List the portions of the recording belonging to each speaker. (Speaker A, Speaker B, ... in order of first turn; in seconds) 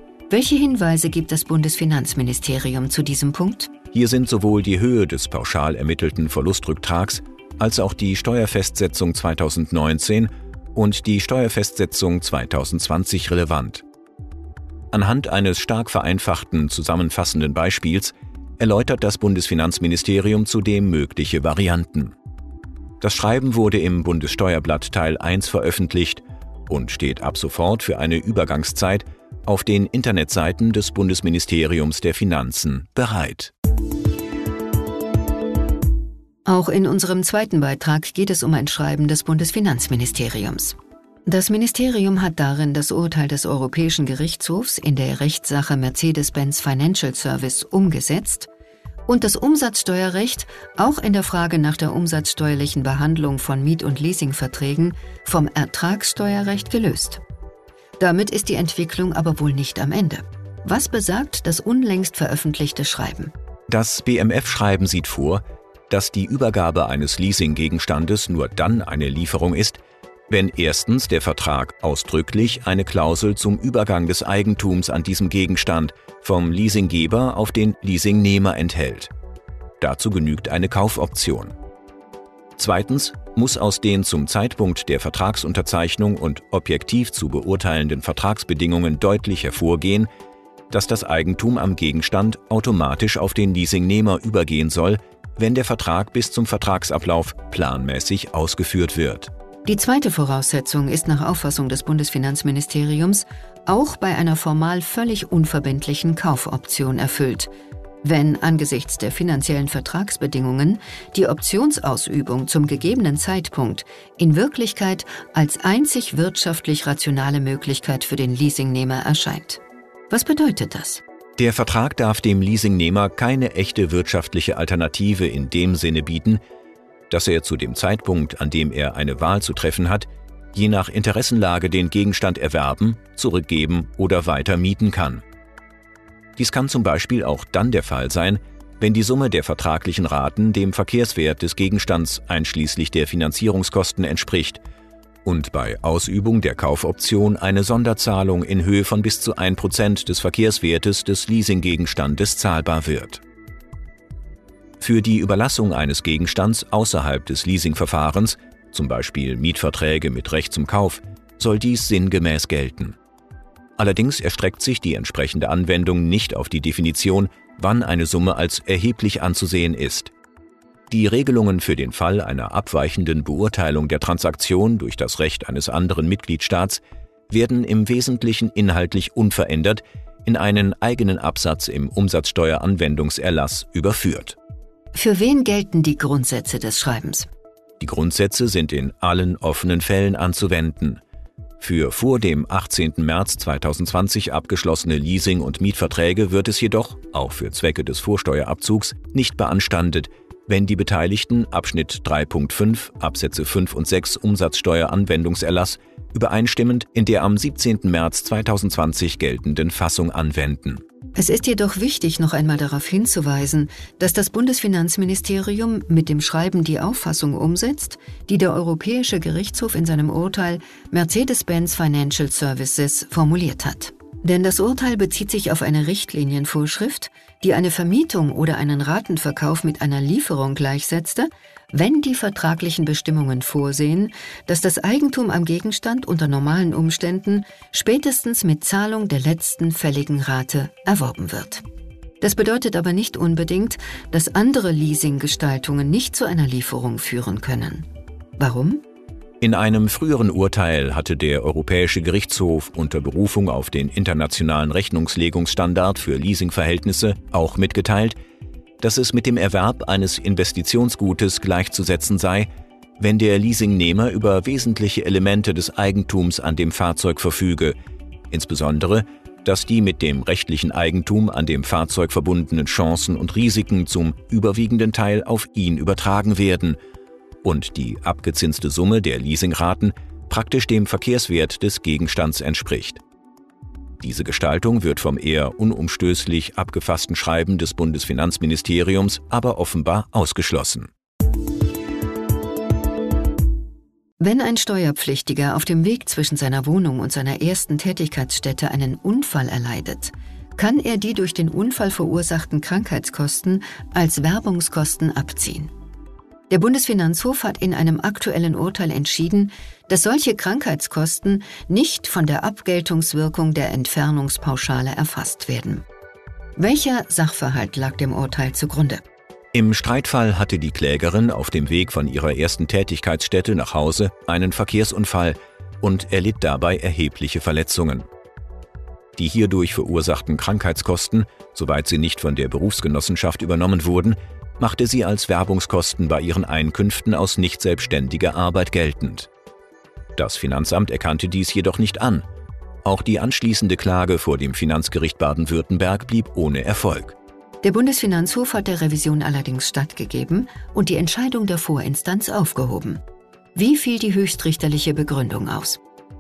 Speaker A: 0.3-3.7, 36.5-48.5, 49.1-57.2, 58.0-63.3, 99.7-107.5, 108.0-121.0, 184.9-187.3, 211.2-241.6, 242.2-247.9, 248.4-248.8, 294.2-305.7, 306.5-315.9, 316.6-319.0, 347.6-353.0, 353.6-355.8
Speaker B: 3.9-13.8, 14.9-22.1, 23.0-33.5, 63.7-79.1, 79.8-81.5, 82.6-90.1, 90.7-99.3, 121.4-126.4, 127.1-135.2, 136.4-144.6, 145.2-153.2, 154.8-163.0, 163.8-170.1, 170.9-184.4, 187.8-191.0, 191.6-210.8, 249.4-258.2, 258.8-267.8, 268.3-276.8, 277.4-283.0, 284.0-290.9, 319.5-328.1, 329.2-339.3, 340.2-342.2, 342.8-347.2